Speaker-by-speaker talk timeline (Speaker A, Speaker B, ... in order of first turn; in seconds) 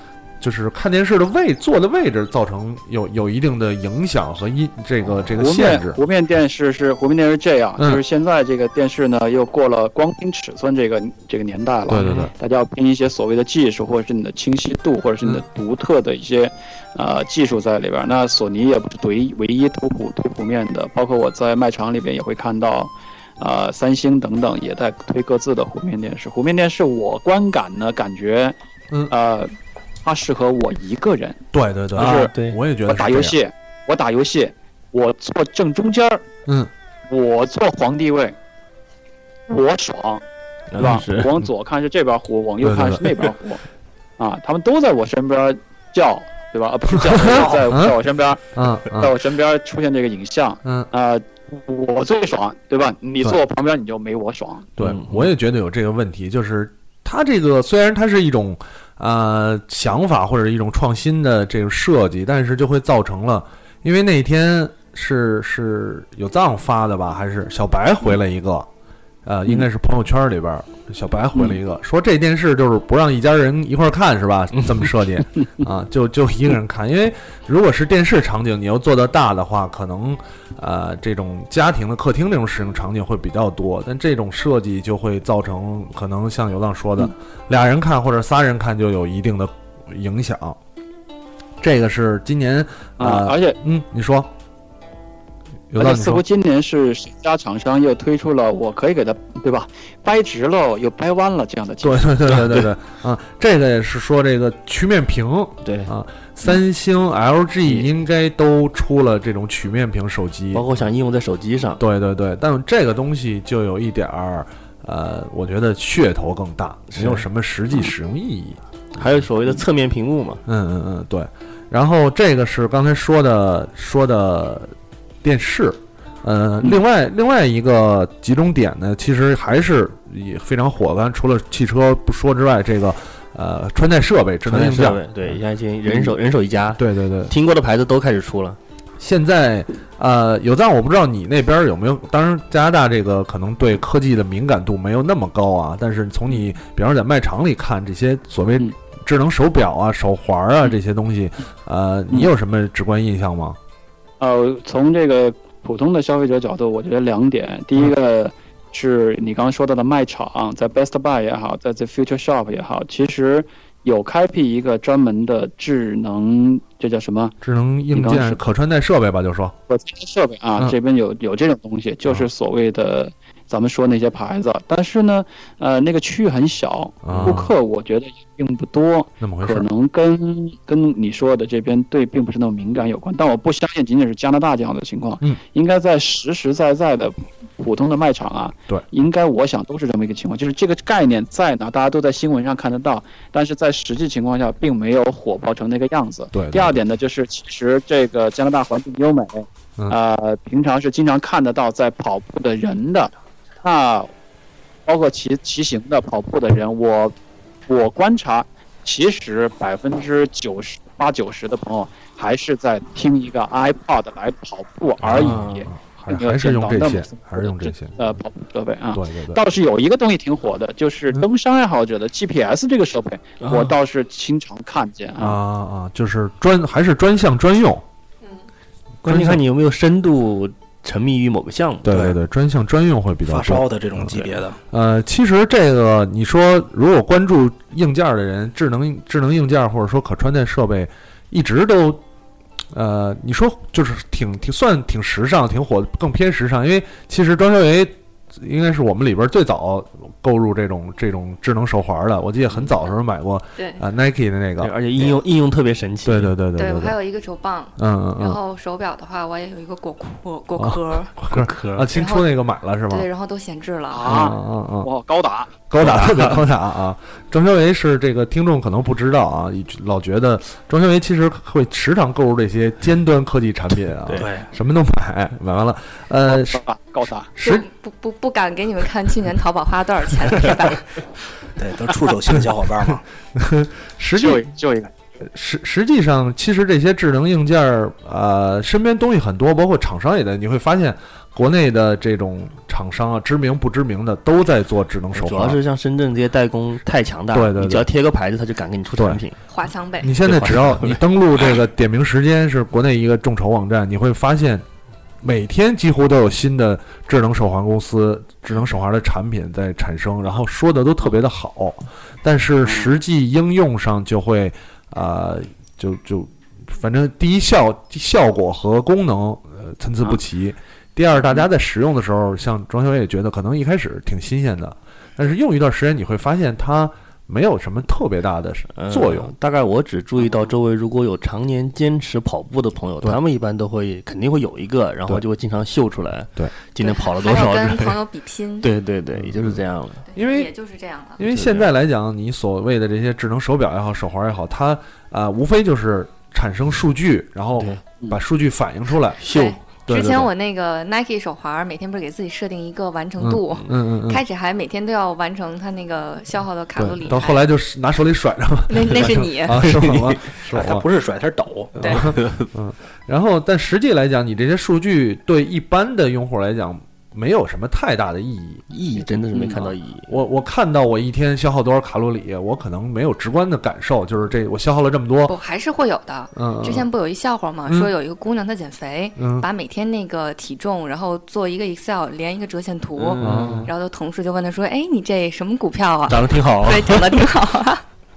Speaker A: 0.4-6.0, 11.9-12.3, 31.5-33.4, 36.5-36.7, 42.6-43.1, 46.9-47.9, 48.5-49.2, 54.8-68.7, 69.2-90.6, 91.6-94.3, 95.7-96.2, 101.8-110.7, 111.8-119.0, 120.5-135.3, 136.8-137.3, 139.0-153.6, 167.4-169.5, 177.0-177.5, 179.2-179.7, 196.3-196.8, 215.0-218.2, 218.9-219.4, 225.2-227.8, 229.0-229.4, 231.8-242.0, 242.7-254.7, 256.0-257.0, 257.8-258.4, 260.6-263.1, 264.0-264.9, 265.7-276.6, 277.3-277.6, 283.4-284.4, 285.2-295.6, 297.3-297.9, 298.9-299.2, 300.0-304.6, 305.2-329.3, 339.1-339.6, 340.1-340.5, 341.2-349.2, 349.9-350.3, 353.2-354.2, 356.8-360.8, 361.8-368.6, 370.1-375.3, 376.3-376.9, 377.7-377.9, 379.2-379.5, 383.2-383.7
Speaker B: 5.3-28.6, 29.1-29.5, 30.0-31.4, 31.9-32.3, 32.9-36.2, 37.1-38.4, 39.5-40.2, 40.8-43.6, 44.2-54.7, 93.0-93.6, 95.8-102.2, 154.2-167.3, 167.9-168.4, 169.7-204.1, 204.8-207.1, 207.7-225.4, 263.9-265.5, 276.2-277.3, 284.1-284.9, 312.6-312.9
Speaker C: 32.0-32.6, 40.7-41.3, 54.8-55.3, 74.5-74.8, 102.3-102.7, 105.6-105.9, 110.5-111.8, 116.9-117.2, 119.0-120.4, 134.4-138.6, 177.1-177.4, 215.1-215.7, 223.4-223.7, 229.0-232.2, 254.6-256.3, 261.3-261.9, 265.8-266.4, 295.1-299.4, 300.2-301.0, 328.8-338.0, 338.6-340.0, 341.3-341.7, 349.2-349.6, 359.6-360.1, 362.2-362.5, 368.7-370.1, 383.0-383.7, 386.1-387.2
Speaker D: 233.2-234.6, 274.1-274.5, 281.6-283.0, 360.5-362.1
Speaker E: 256.6-261.1, 261.9-262.4, 262.9-264.1, 277.4-280.8, 299.5-300.1, 336.8-338.7, 340.1-341.2, 349.2-357.5, 358.7-359.6, 375.3-387.8